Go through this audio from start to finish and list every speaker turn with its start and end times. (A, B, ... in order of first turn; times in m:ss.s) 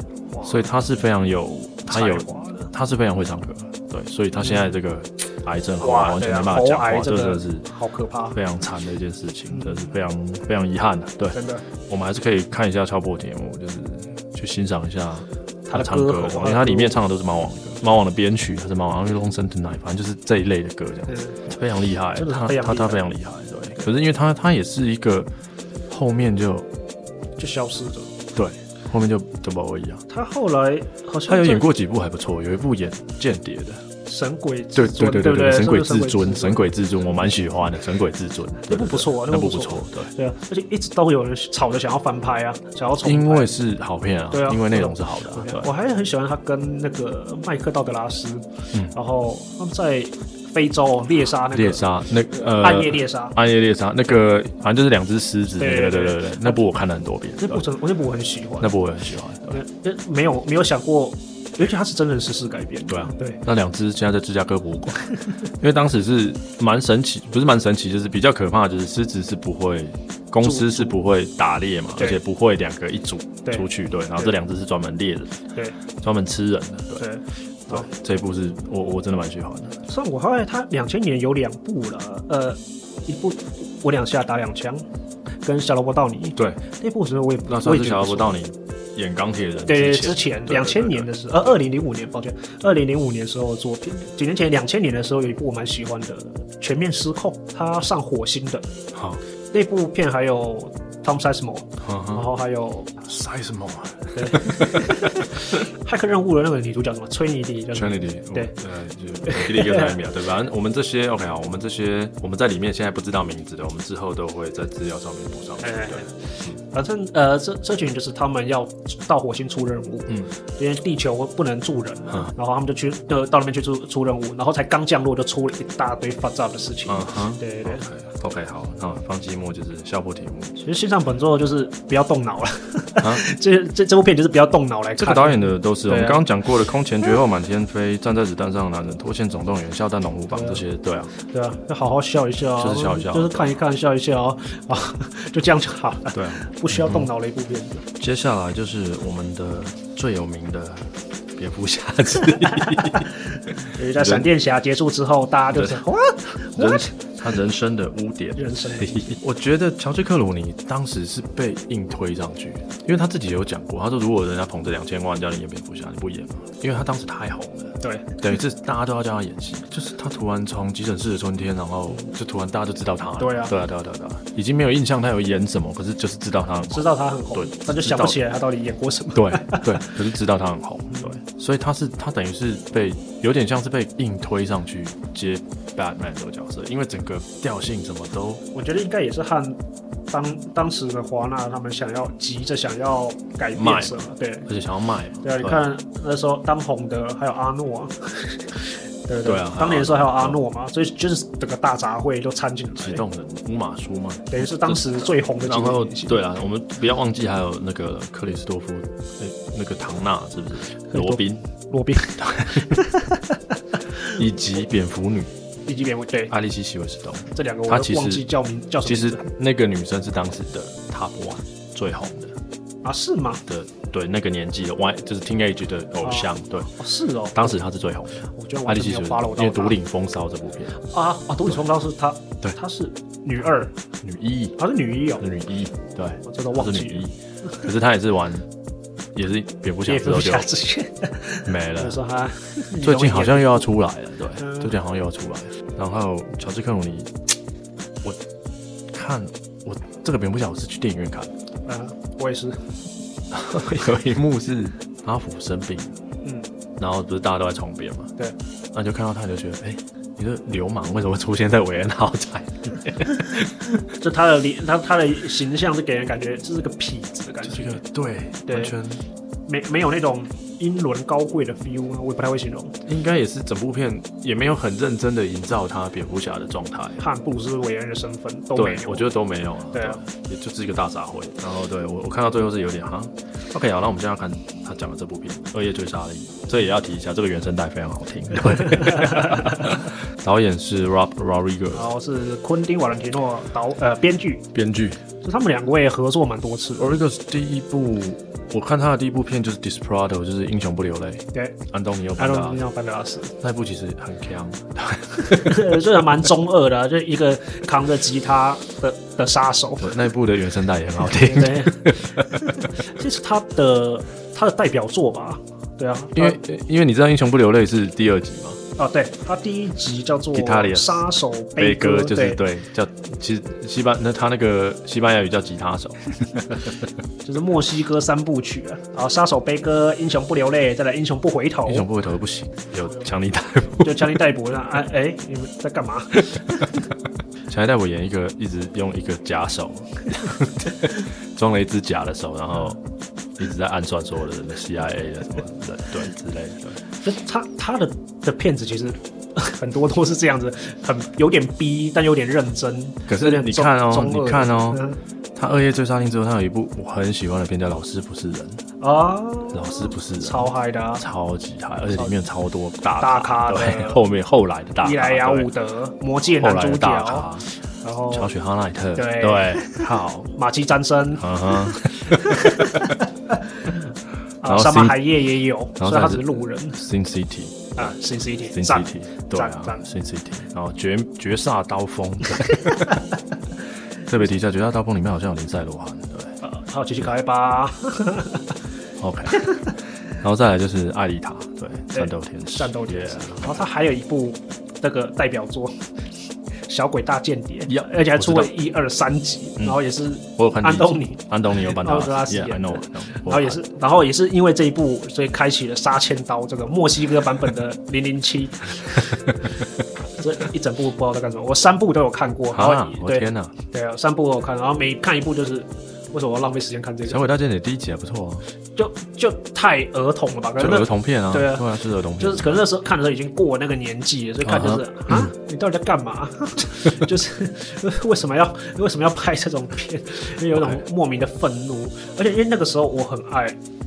0:00.3-0:00.6 A
0:00.4-0:07.7 B
0:01.9-0:02.7 A
0:05.8-0:08.4 A
0:08.3-0:25.3 B
0:09.5-0:09.8 A
0:11.3-0:11.6 A
0:15.7-0:17.0 A
0:21.1-0:21.4 A
0:22.1-0:23.1 A
0:25.9-0:26.7 B
0:27.4-0:28.2 A
0:28.3-0:30.0 B
0:30.1-0:31.6 A
0:31.3-0:33.8 B
0:34.0-0:36.6 A
0:34.7-0:40.1 B
0:38.7-0:43.5 A
0:43.0-0:45.7 B
0:44.3-0:51.9 A
0:51.5-0:57.6 B
0:52.5-0:53.4 A
0:55.6-0:56.6 A
0:57.4-0:58.7 A
0:58.6-0:59.6 B
0:59.5-1:03.4 A
1:02.9-1:15.4 B
1:10.4-1:11.0 A
1:16.0-1:17.0 B
1:17.0-1:17.9 A
1:17.7-1:19.8 B
1:19.9-1:24.8 A
1:25.4-1:28.4 A
1:26.4-1:26.6 B
1:27.4-1:31.1 B
1:29.7-1:38.7 A
1:38.9-1:39.2 B
1:39.5-1:43.0 A
1:41.8-1:42.3 B
1:43.0-1:45.5 B
1:44.1-1:48.5 A
1:47.7-1:56.6 B
1:49.2-1:50.0 A
1:55.6-2:07.8 A
2:06.9-2:10.6 B
2:10.6-2:16.2 A
2:13.0-2:13.2 B
2:15.0-2:21.1 B
2:20.3-2:20.6 A
2:21.3-2:27.8 A
2:22.6-2:23.6 B
2:26.1-2:27.1 B
2:27.9-2:34.3 B
2:32.5-2:36.9 A
2:35.5-2:35.8 B
2:36.5-2:58.2 B
2:38.4-2:39.2 A
2:47.8-2:48.2 A
2:53.2-2:53.5 A
2:56.7-2:59.9 A
2:59.1-3:08.4 B
3:08.5-3:14.5 A
3:13.5-3:15.6 B
3:15.2-3:23.0 A
3:19.2-3:20.4 B
3:22.8-3:31.4 B
3:24.3-3:26.2 A
3:30.9-3:34.2 A
3:32.2-3:32.8 B
3:34.0-3:35.3 B
3:35.6-3:36.3 A
3:36.3-3:38.2 B
3:37.3-3:39.2 A
3:38.8-3:42.3 B
3:42.8-3:43.4 A
3:43.5-3:46.7 B
3:46.0-3:47.6 A
3:47.3-3:50.8 B
3:48.3-3:49.8 A
3:50.8-3:53.7 A
3:54.0-3:54.6 B
3:54.6-3:55.2 A
3:55.2-3:58.4 B
3:56.2-3:57.0 A
3:59.1-4:00.5 B
3:59.9-4:03.7 A
4:01.4-4:02.0 B
4:02.8-4:07.1 B
4:04.4-4:04.7 A
4:08.9-4:11.3 B
4:11.6-4:12.6 A
4:13.3-4:16.0 B
4:16.2-4:16.5 A
4:16.8-4:18.1 B
4:18.7-4:23.7 B
4:23.9-4:27.8 A
4:27.4-4:29.0 B
4:28.5-4:28.7 A
4:29.5-4:32.8 A
4:32.8-4:37.0 B
4:37.0-4:39.1 A
4:38.5-4:51.9 B
4:39.7-4:40.0 A
4:48.8-4:49.4 A
4:51.7-4:54.4 A
4:54.5-4:55.0 B
4:55.2-4:57.0 A
4:56.8-5:02.6 B
5:02.2-5:03.3 A
5:03.4-5:05.8 B
5:05.2-5:09.9 A
5:09.8-5:12.8 B
5:11.0-5:16.4 A
5:16.1-5:18.6 B
5:18.8-5:22.4 A
5:20.3-5:21.0 B
5:21.6-5:26.8 B
5:27.2-5:31.9 A
5:31.6-5:34.2 B
5:33.8-5:36.8 A
5:36.2-5:36.6 B
5:37.5-5:42.8 B
5:43.4-5:46.8 B
5:47.0-5:55.0 A
5:53.1-5:58.6 B
5:58.8-6:01.0 A
5:59.5-6:05.5 B
6:03.0-6:04.0 A
6:04.8-6:08.3 A
6:06.4-6:07.5 B
6:08.1-6:10.3 B
6:08.9-6:13.8 A
6:11.2-6:13.0 B
6:14.4-6:16.8 A
6:14.4-6:15.2 B
6:15.8-6:18.0 B
6:17.8-6:19.8 A
6:18.5-6:23.0 B
6:22.5-6:22.9 A
6:24.0-6:26.4 B
6:26.4-6:28.6 A
6:29.0-6:33.6 B
6:31.9-6:35.9 A
6:36.6-6:49.3 A
6:37.7-6:38.5 B
6:40.4-6:43.6 B
6:50.2-6:57.2 A
6:52.5-6:53.5 B
6:57.1-6:58.4 B
6:58.8-7:13.6 A
7:00.6-7:02.6 B
7:04.4-7:05.3 B
7:10.5-7:10.8 B